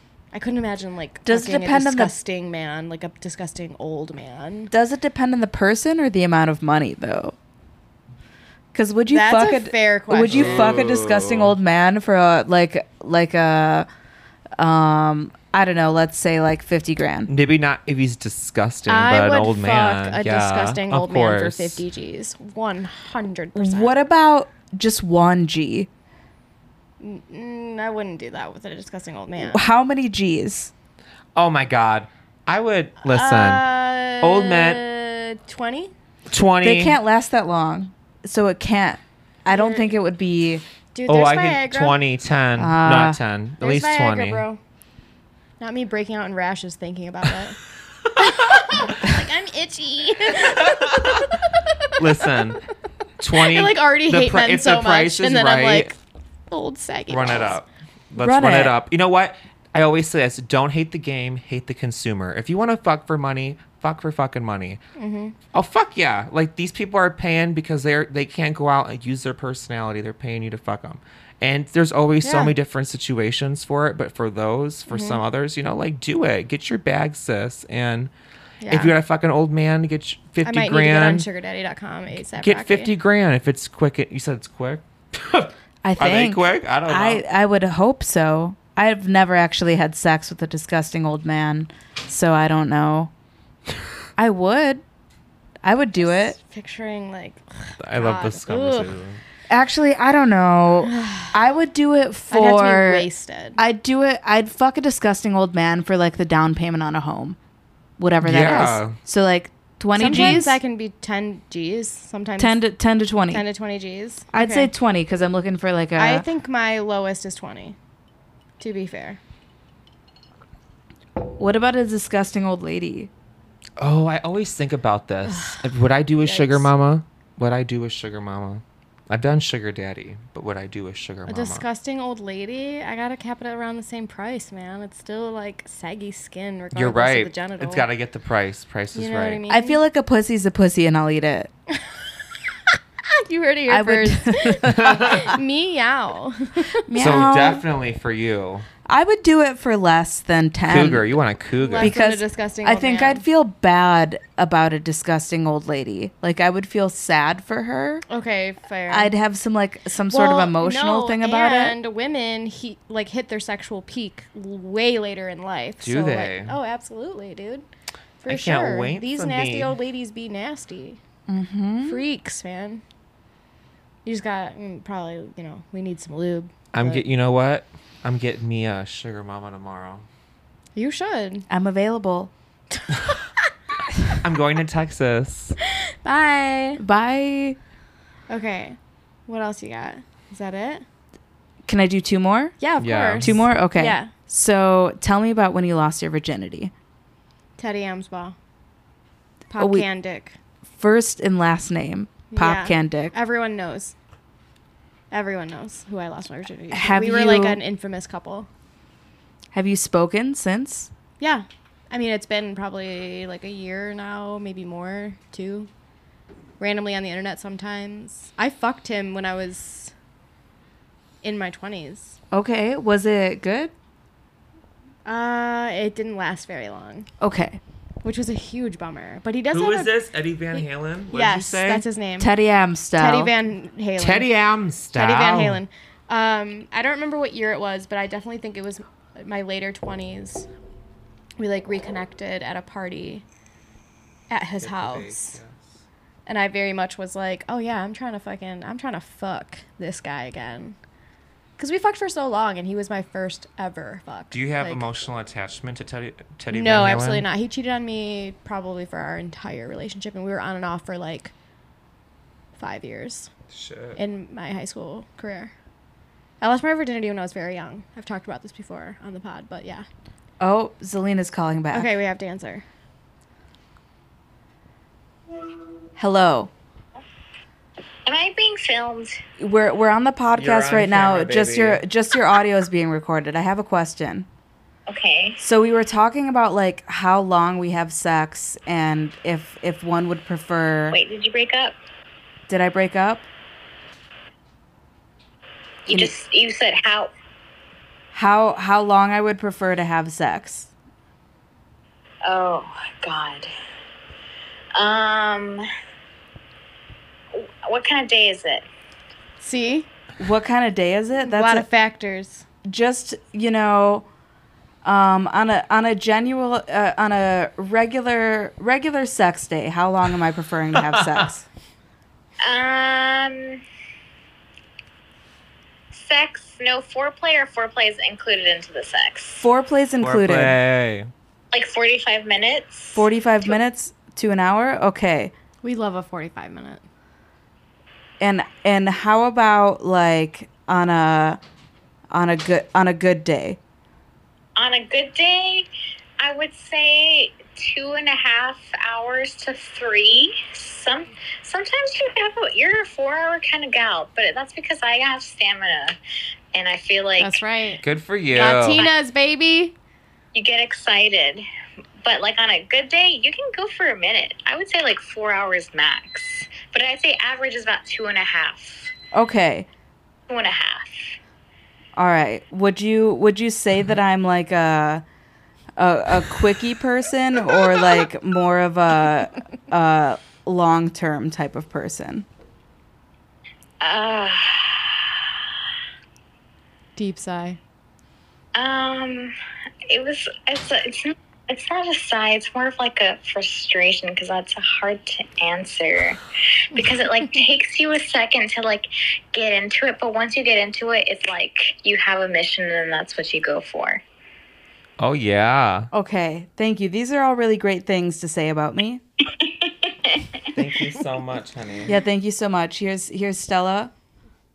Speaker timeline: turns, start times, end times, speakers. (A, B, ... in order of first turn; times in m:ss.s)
0:00.3-0:04.7 A
0:01.2-0:02.1 B
0:04.7-0:07.4 B
0:08.7-0:13.9 B
0:09.1-0:10.6 A
0:10.3-0:11.5 C
0:14.6-0:17.3 B
0:17.3-0:21.8 C
0:18.9-0:23.9 A
0:23.5-0:25.9 B
0:27.0-0:29.6 A
0:29.4-0:30.7 B
0:31.4-0:33.6 C
0:33.0-0:35.9 A
0:34.2-0:34.8 C
0:36.3-0:37.0 C
0:36.6-0:40.6 B
0:39.5-0:39.9 A
0:40.9-0:42.0 A
0:41.1-0:44.4 C
0:42.6-0:43.2 B
0:43.6-0:44.6 A
0:45.6-0:47.6 A
0:48.2-0:52.3 A
0:50.4-0:51.3 C
0:51.9-0:52.6 C
0:53.2-0:55.9 C
0:53.4-0:56.0 A
0:56.5-0:57.6 A
0:57.1-1:04.8 C
0:58.2-0:58.7 B
1:05.0-1:05.4 A
1:05.5-1:18.1 C
1:12.2-1:12.5 A
1:14.9-1:15.2 A
1:18.6-1:18.9 A
1:18.7-1:21.2 C
1:20.4-1:22.9 A
1:22.4-1:27.2 C
1:25.8-1:33.1 B
1:34.2-1:34.8 B
1:35.6-1:36.4 B
1:36.0-1:38.9 A
1:37.8-1:39.2 C
1:39.5-1:47.4 B
1:40.8-1:41.3 A
1:42.3-1:43.6 A
1:48.0-1:50.6 B
1:48.2-1:49.0 C
1:49.9-1:52.6 A
1:52.4-1:53.4 B
1:53.3-1:54.7 A
1:54.3-1:56.2 B
1:56.0-1:57.8 A
1:58.6-1:59.2 A
2:01.2-2:03.1 B
2:03.8-2:11.6 C
2:05.3-2:05.6 A
2:06.2-2:06.7 A
2:11.3-2:17.8 A
2:16.7-2:19.4 C
2:18.9-2:19.8 A
2:19.5-2:21.5 B
2:21.7-2:22.0 A
2:22.7-2:26.9 A
2:23.7-2:25.3 B
2:24.7-2:25.3 C
2:26.9-2:27.6 B
2:26.9-2:28.7 C
2:28.8-2:31.1 B
2:30.7-2:31.9 C
2:31.6-2:33.2 A
2:31.8-2:38.0 B
2:38.1-2:39.1 A
2:38.9-2:41.8 B
2:40.1-2:47.6 A
2:45.8-2:46.6 C
2:48.2-2:51.0 A
2:48.3-2:49.7 C
2:51.3-2:52.0 B
2:51.8-2:52.8 A
2:54.0-2:57.0 A
2:56.7-3:00.0 C
3:00.7-3:01.4 A
3:01.5-3:02.3 B
3:02.7-3:03.5 A
3:04.2-3:05.5 C
3:05.7-3:06.8 A
3:06.8-3:07.6 B
3:08.3-3:10.8 A
3:11.6-3:12.6 B
3:12.6-3:14.1 A
3:12.8-3:13.5 C
3:13.2-3:16.7 B
3:17.6-3:18.4 A
3:19.5-3:20.4 A
3:19.6-3:19.8 B
3:20.7-3:23.1 B
3:22.3-3:23.9 A
3:25.1-3:28.5 A
3:26.7-3:27.6 B
3:29.5-3:30.9 B
3:31.2-3:35.7 A
3:36.6-3:39.9 A
3:41.2-3:42.2 A
3:42.3-3:43.7 B
3:45.0-3:47.1 A
3:47.2-3:47.6 B
3:48.0-3:49.9 A
3:49.5-3:51.8 C
3:50.5-3:52.3 A
3:52.2-3:53.3 B
3:53.0-3:54.3 A
3:54.0-3:55.6 C
3:54.9-4:00.5 A
4:01.4-4:03.2 A
4:04.3-4:05.4 A
4:04.6-4:05.7 C
4:06.2-4:10.8 A
4:11.6-4:14.8 A
4:14.3-4:17.3 C
4:16.5-4:21.3 A
4:22.6-4:23.3 A
4:23.5-4:24.0 C
4:24.0-4:25.5 A
4:26.4-4:29.8 A
4:30.4-4:31.9 B
4:31.7-4:32.6 A
4:36.0-4:36.5 B
4:38.0-4:39.2 D
4:39.4-4:44.3 B
4:40.4-4:41.8 C
4:44.9-4:45.4 D
4:45.4-4:51.0 B
4:50.9-4:51.8 D
4:52.5-4:53.3 B
4:55.8-4:57.1 D
4:58.1-5:00.7 B
5:02.2-5:03.5 D
5:04.8-5:05.6 D
5:07.3-5:08.6 D
5:09.4-5:09.9 A
5:10.2-5:11.7 B
5:11.2-5:12.4 A
5:12.6-5:14.0 B
5:14.8-5:21.4 B
5:20.8-5:21.2 C
5:22.4-5:23.6 D
5:25.9-5:29.5 D
5:29.4-5:30.6 B
5:30.0-5:31.1 C
5:31.5-5:33.1 D
5:32.9-5:35.3 B
5:35.6-5:36.8 A
5:38.2-5:41.4 B
5:42.1-5:43.6 B
5:44.6-5:45.7 D
5:46.2-5:56.0 D
5:56.5-5:57.3 D
5:57.2-5:59.7 A
5:57.8-5:58.9 C
6:00.3-6:01.4 D
6:02.0-6:08.9 D
6:09.1-6:09.7 B
6:10.3-6:11.2 D
6:11.9-6:15.0 B
6:15.8-6:22.2 B
6:23.8-6:25.3 D
6:27.0-6:27.6 A
6:28.5-6:29.3 D
6:29.9-6:36.2 D
6:36.7-6:44.0 D
6:45.0-6:45.9 C
6:45.9-6:49.0 B
6:49.3-6:50.5 D
6:50.5-6:52.0 C
6:51.8-6:53.9 B